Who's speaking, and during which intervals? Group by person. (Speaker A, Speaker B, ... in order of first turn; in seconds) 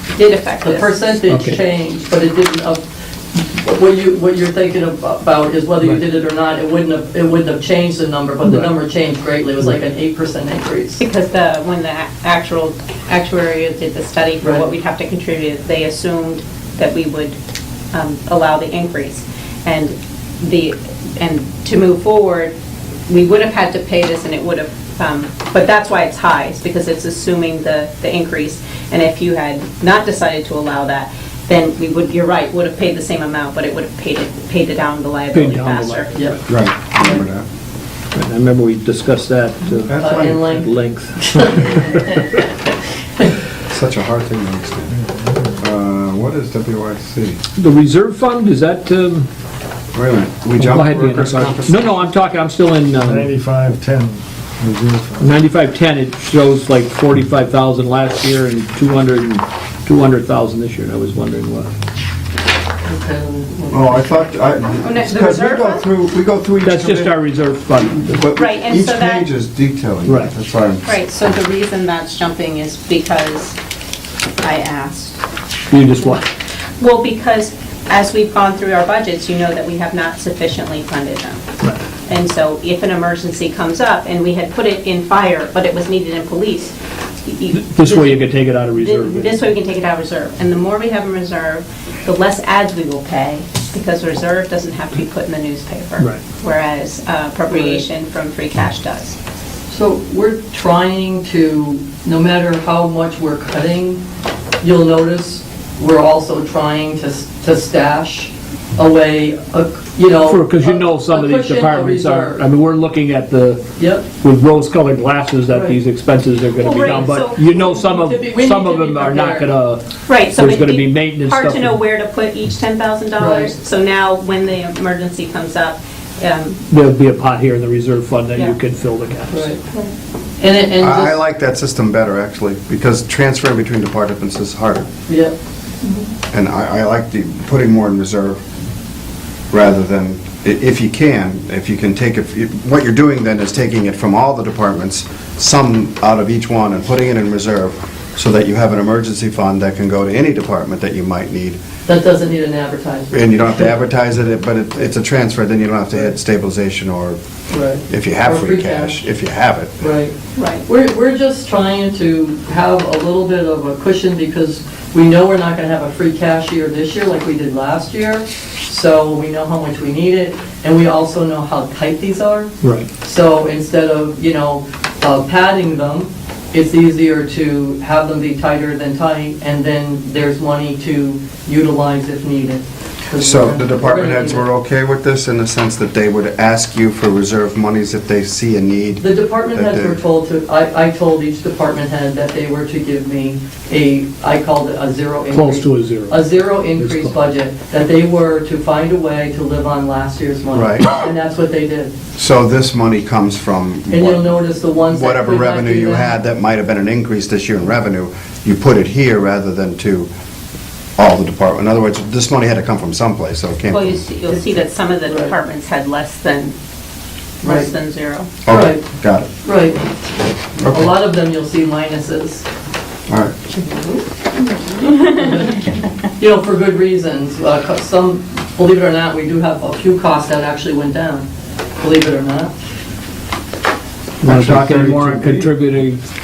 Speaker A: 0.2-1.0, 11.0-17.4, 17.9-22.5, 23.1-36.1, 64.8-65.8, 68.4-69.2, 70.8-73.5, 74.4-75.2, 76.8-81.4, 82.1-86.7, 87.3-88.3, 88.8-99.2, 116.6-117.4, 120.1-126.6, 160.4-160.6, 213.7-216.6, 217.4-218.3
Speaker B: 0.6-11.0, 14.4-14.7, 40.0-42.5, 62.8-64.4, 97.5-97.8, 99.7-104.0, 104.6-112.4, 113.8-114.1, 115.5-115.8, 116.8-119.5, 123.2-123.5, 129.3-129.6, 130.4-131.2, 135.1-135.4, 151.9-153.8, 157.5-159.0, 159.8-160.2, 160.7-184.5, 189.0-201.9, 203.9-206.2, 214.3-215.3, 217.4-217.7, 218.5-218.8, 219.4-220.0, 220.7-222.4, 223.5-224.0, 225.0-231.3, 231.8-232.5
Speaker C: 1.3-1.6, 8.4-8.7, 35.3-36.4, 38.1-42.0, 47.5-49.3, 50.6-53.3, 55.2-61.7, 66.6-68.2, 70.0-70.3, 75.7-76.2, 87.5-89.4, 110.2-113.6, 114.2-121.8, 126.7-129.5, 172.6-172.9, 195.3-197.2, 234.2-236.0
Speaker D: 36.5-37.5, 39.9-40.4, 43.7-44.9, 45.6-47.4, 49.9-52.0, 63.7-67.2, 68.1-70.9, 130.8-134.9, 136.3-138.4, 139.5-151.6, 153.1-157.2, 157.9-159.9, 183.2-190.0, 200.5-201.1, 202.2-210.1, 211.0-214.1, 218.4-219.3, 220.6-221.0, 223.1-223.3, 234.2-235.6
Speaker E: 44.9-45.6, 53.0-55.3